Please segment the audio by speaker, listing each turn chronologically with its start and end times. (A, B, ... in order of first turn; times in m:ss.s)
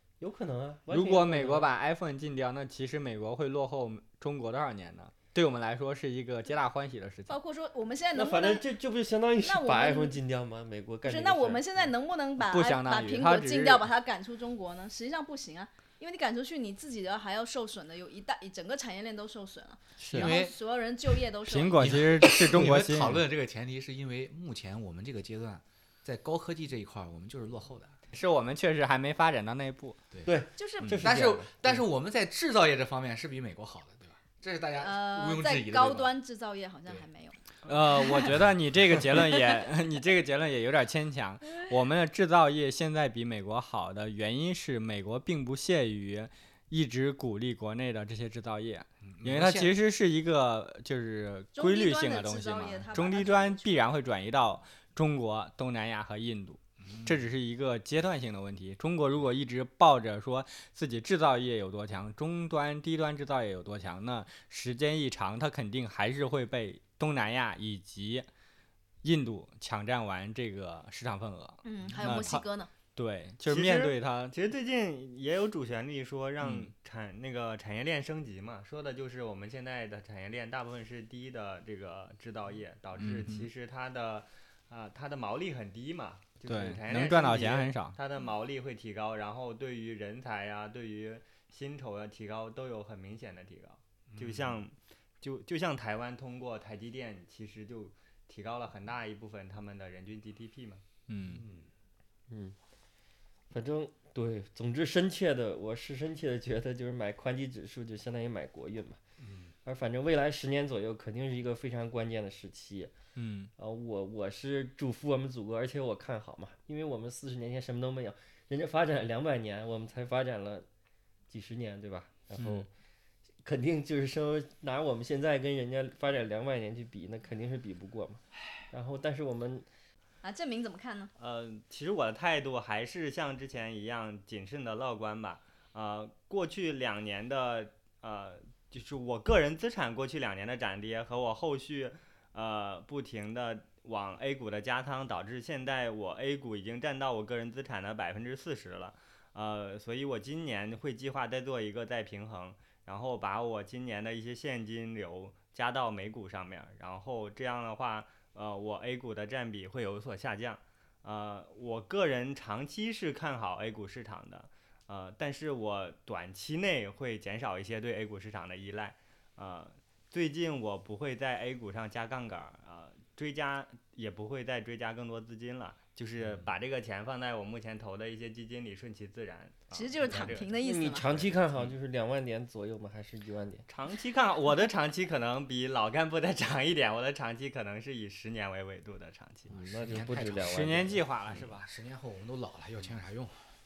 0:00.2-0:01.7 A
0:00.9-0:07.4 B
0:07.3-0:08.6 C
0:08.1-0:11.8 A
0:09.4-0:10.2 C
0:11.0-0:22.0 C
0:12.4-0:13.9 B
0:20.0-0:20.3 B
0:20.1-0:20.5 D
0:21.5-0:23.2 B
0:21.8-0:28.0 D
0:28.1-0:30.0 B
0:30.2-0:31.8 A
0:30.6-0:31.0 C
0:31.0-0:36.1 D
0:34.8-0:37.4 C
0:37.6-1:08.3 B
0:49.0-0:49.7 D
0:51.5-0:53.8 C
0:56.8-0:57.2 D
1:09.0-1:12.4 B
1:11.6-1:12.7 C
1:13.0-1:14.3 B
1:13.4-1:40.8 E
1:16.4-1:16.7 B
1:23.0-1:23.5 B
1:26.5-1:28.0 B
1:34.1-1:34.6 D
1:41.1-1:41.4 B
1:41.2-1:41.7 D
1:42.3-1:42.6 A
1:43.5-1:49.0 A
1:49.2-1:49.5 D
1:49.6-1:52.9 A
1:53.2-1:53.5 B
1:53.6-2:00.7 A
2:01.3-2:02.7 A
2:02.4-2:02.7 B
2:03.4-2:09.7 A
2:10.2-2:11.1 C
2:11.2-3:00.6 E
2:56.2-2:56.5 D
2:59.7-3:01.2 C
3:00.6-3:03.6 A
3:03.7-3:09.5 E
3:09.5-3:13.4 D
3:09.5-3:11.0 A
3:10.4-3:11.7 B